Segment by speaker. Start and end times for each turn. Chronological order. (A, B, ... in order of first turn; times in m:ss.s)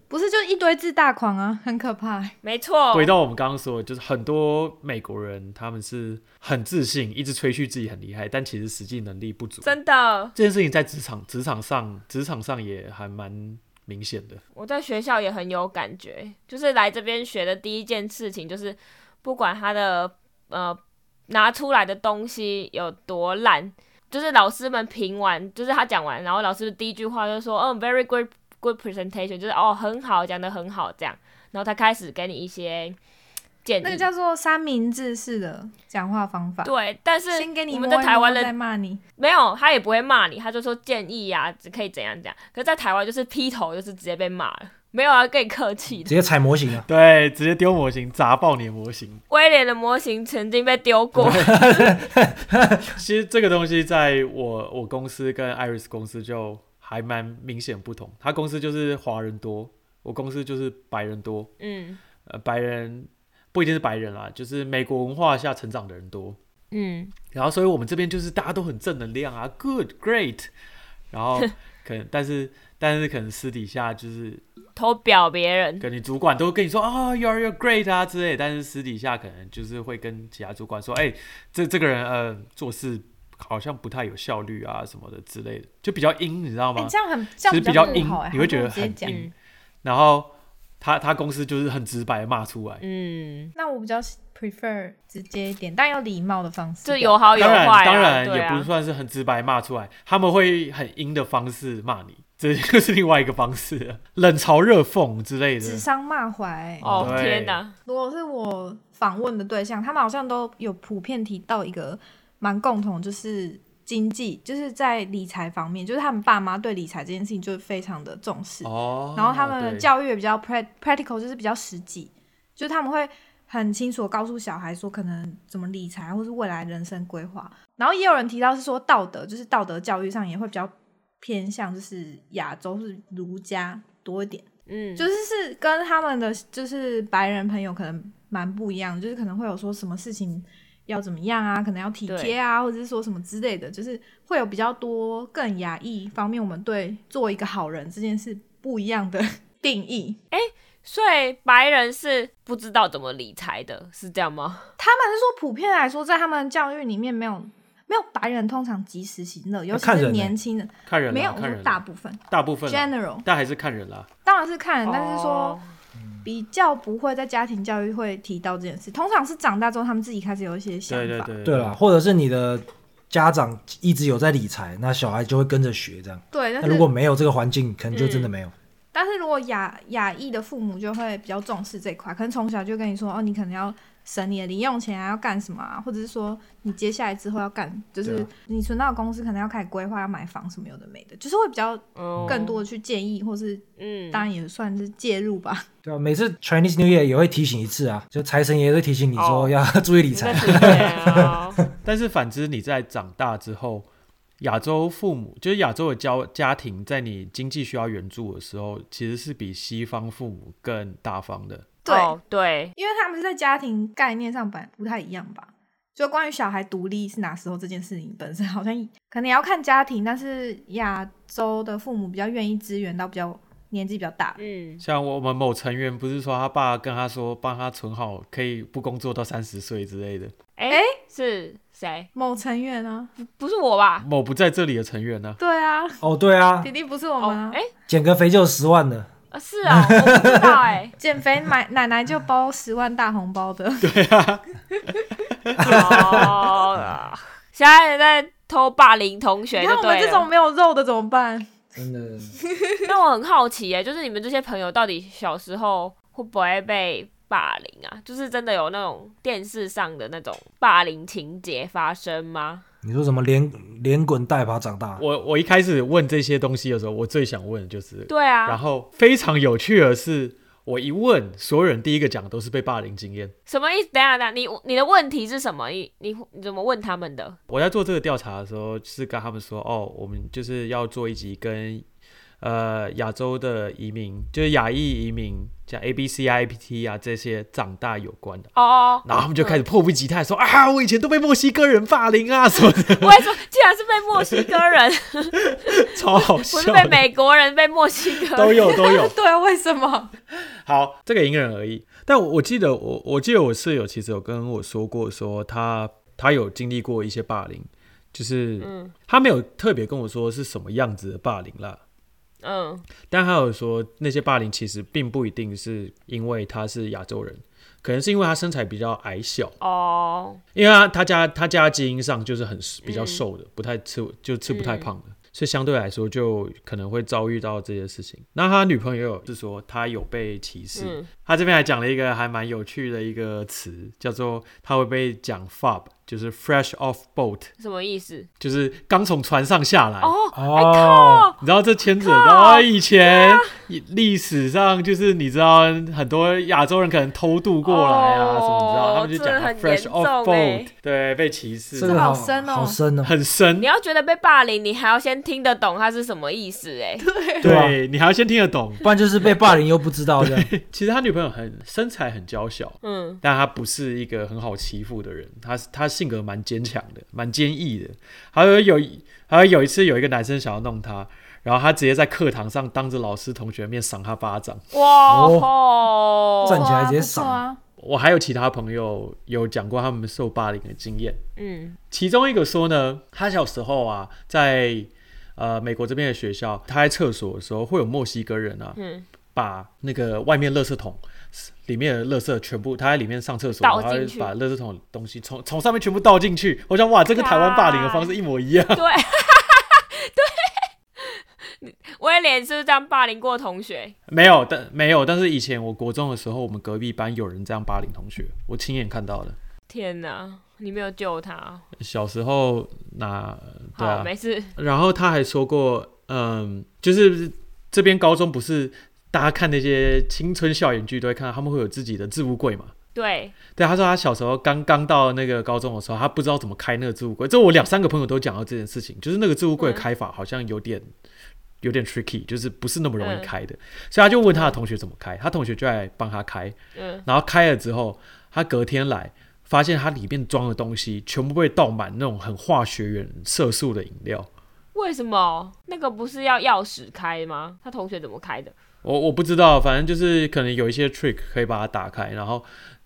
0:00.1-0:02.4 A
0:02.4-0:03.1 B
0:02.9-0:09.7 C
0:09.6-0:10.4 B
0:10.4-0:14.4 C
0:14.5-0:33.0 B
0:33.6-0:34.0 B
0:33.8-0:36.7 A
0:36.6-0:38.5 B
0:37.3-0:39.0 A
0:39.2-0:46.1 B
0:46.0-0:46.9 D
0:46.9-0:49.2 C
0:49.3-0:51.9 B
0:51.2-0:51.6 C
0:51.2-0:52.9 D
0:52.9-1:01.5 C
1:01.6-1:02.0 B
1:02.2-1:06.4 C
1:06.7-1:07.1 B
1:07.3-1:10.5 C
1:11.1-1:14.4 C
1:14.8-1:15.9 B
1:15.8-1:29.2 C
1:26.8-1:29.2 A
1:27.7-1:28.0 B
1:29.0-1:29.3 B
1:29.8-1:32.8 C
1:32.8-1:33.5 B
1:33.6-1:37.4 A
1:36.8-1:38.7 B
1:37.3-1:45.8 C
1:45.6-1:47.1 A
1:46.8-1:47.6 C
1:46.8-1:47.7 B
1:47.9-2:14.4 A
1:58.6-1:59.9 C
2:14.7-2:15.1 B
2:15.0-2:30.2 A
2:22.1-2:22.4 B
2:30.3-2:34.7 B
2:34.8-2:43.2 A
2:39.7-2:40.4 D
2:40.9-2:44.1 C
2:44.2-2:45.6 A
2:44.8-2:45.7 B
2:46.0-2:46.2 D
2:46.2-2:51.3 A
2:50.9-2:51.8 C
2:51.4-2:58.5 D
2:56.3-2:56.9 A
2:57.9-2:58.3 B
2:58.9-3:15.6 A
3:12.0-3:12.6 B
3:13.8-3:14.3 B
3:15.8-3:21.6 D
3:19.2-3:19.5 B
3:20.1-3:21.6 B
3:20.4-3:20.8 C
3:21.8-3:23.9 C
3:24.4-3:31.7 C
3:31.8-3:32.1 A
3:31.9-3:32.7 B
3:32.8-3:44.4 A
3:44.4-3:44.8 B
3:44.8-3:50.3 C
3:50.6-3:52.1 B
3:50.7-3:50.9 A
3:52.1-3:53.1 A
3:53.2-3:54.0 B
3:54.0-3:55.4 C
3:55.4-3:56.0 A
3:56.0-3:56.7 D
3:56.6-3:57.6 A
3:57.2-3:57.7 B
3:57.9-3:59.1 D
3:59.3-4:00.9 B
3:59.6-4:00.6 D
4:01.0-4:03.9 A
4:03.8-4:04.4 C
4:05.6-4:06.4 D
4:05.6-4:10.3 B
4:09.5-4:11.6 A
4:11.8-4:12.4 D
4:12.6-4:12.9 A
4:12.8-4:22.6 B
4:22.8-4:25.0 D
4:25.0-4:33.3 C
4:28.1-4:28.6 B
4:33.5-4:37.4 B
4:37.5-4:41.8 C
4:42.4-4:48.5 C
4:48.6-4:49.6 B
4:49.0-4:53.3 C
4:53.0-4:55.8 B
4:54.2-4:54.5 C
4:55.4-4:57.0 C
4:56.5-4:58.7 B
4:58.2-4:59.1 C
4:58.6-5:00.1 A
5:00.6-5:11.8 C
5:08.6-5:08.9 B
5:12.4-5:12.9 B
5:13.1-5:19.5 C
5:19.6-5:20.4 B
5:20.5-5:37.5 C
5:22.8-5:23.2 B
5:24.5-5:24.9 B
5:30.7-5:31.1 B
5:37.6-5:38.3 B
5:38.4-5:40.1 C
5:40.0-5:41.4 B
5:40.3-5:41.3 D
5:41.4-5:52.0 C
5:42.0-5:43.5 B
5:47.6-5:50.7 B
5:51.7-5:53.1 D
5:51.8-5:52.8 A
5:53.0-5:53.7 C
5:53.6-5:57.0 B
5:57.0-5:57.5 A
5:57.4-5:58.8 C
5:57.4-5:57.8 D
5:58.8-6:00.5 D
6:00.2-6:14.6 C
6:02.8-6:03.2 B
6:14.7-6:16.7 B
6:15.1-6:15.5 D
6:16.4-6:17.4 D
6:16.4-6:17.6 A
6:17.8-6:21.2 C
6:21.4-6:21.8 B
6:21.9-6:28.8 C
6:28.8-6:29.0 B
6:29.3-6:38.8 C
6:33.6-6:34.3 B
6:37.1-6:38.2 B
6:38.7-6:43.9 B
6:44.1-6:49.4 C
6:49.7-6:51.6 B
6:51.8-7:02.7 C
6:53.8-6:54.5 B
7:02.9-7:03.4 B
7:03.5-7:10.9 C
7:09.6-7:09.8 B
7:11.6-7:24.3 C
7:13.0-7:13.3 B
7:14.3-7:14.6 B
7:16.7-7:17.0 B
7:24.7-7:28.5 B
7:28.8-7:32.4 C